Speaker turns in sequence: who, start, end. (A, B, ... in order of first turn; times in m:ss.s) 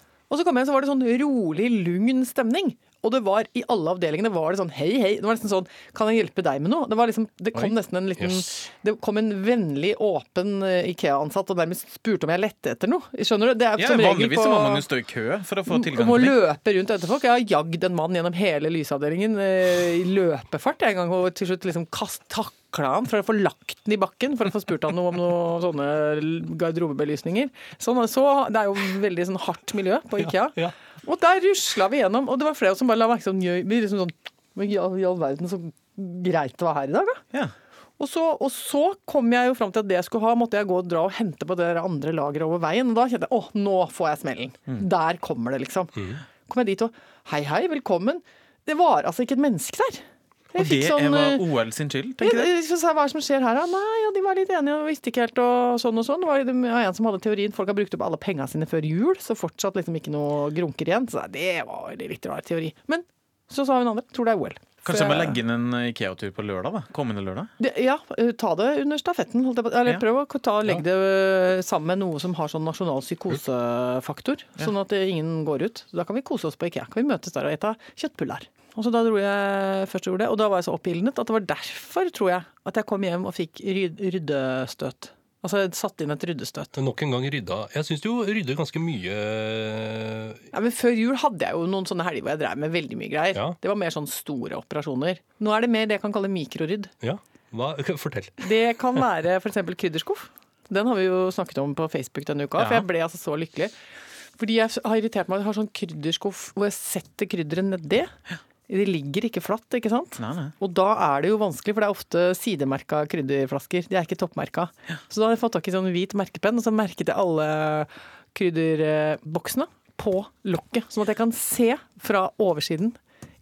0:00.3-0:14.8 A
0:13.8-0:16.4 B
0:15.7-0:37.2 A
0:38.0-0:51.4 A
0:50.6-0:52.5 B
0:52.2-1:05.4 A
1:04.8-1:07.5 B
1:07.6-1:26.8 A
1:26.7-1:30.4 C
1:30.5-1:36.9 A
1:37.0-1:38.5 C
1:38.4-1:43.7 A
1:44.4-1:48.1 A
1:48.7-2:03.0 A
1:50.2-1:50.5 B